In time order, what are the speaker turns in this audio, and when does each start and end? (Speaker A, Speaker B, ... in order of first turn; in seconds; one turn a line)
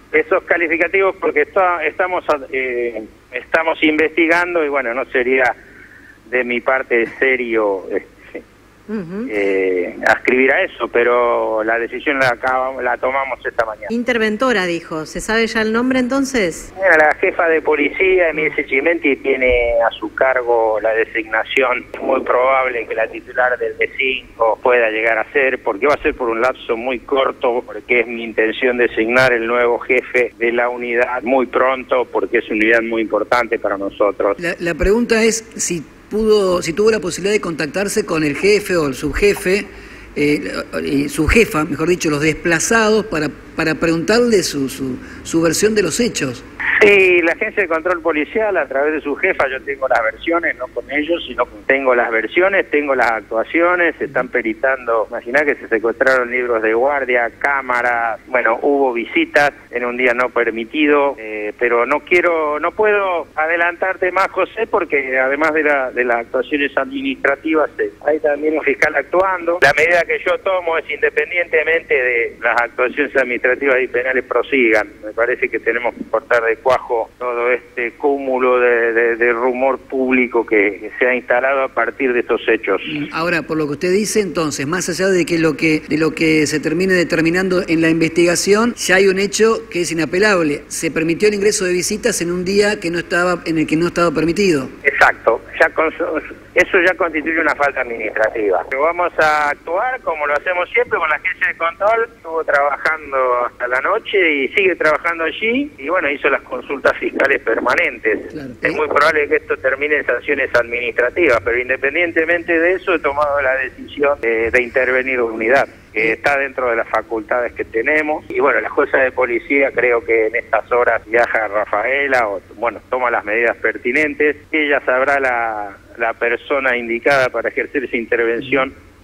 Speaker A: 0.1-5.5
Speaker A: 6.2-8.4
Speaker B: 8.9-9.3
Speaker A: 9.3-13.9
Speaker B: 13.9-16.7
Speaker A: 16.7-34.4
Speaker C: 34.4-46.4
Speaker A: 46.8-83.0
Speaker C: 82.9-94.7
Speaker A: 94.8-128.7
Speaker C: 108.3-108.8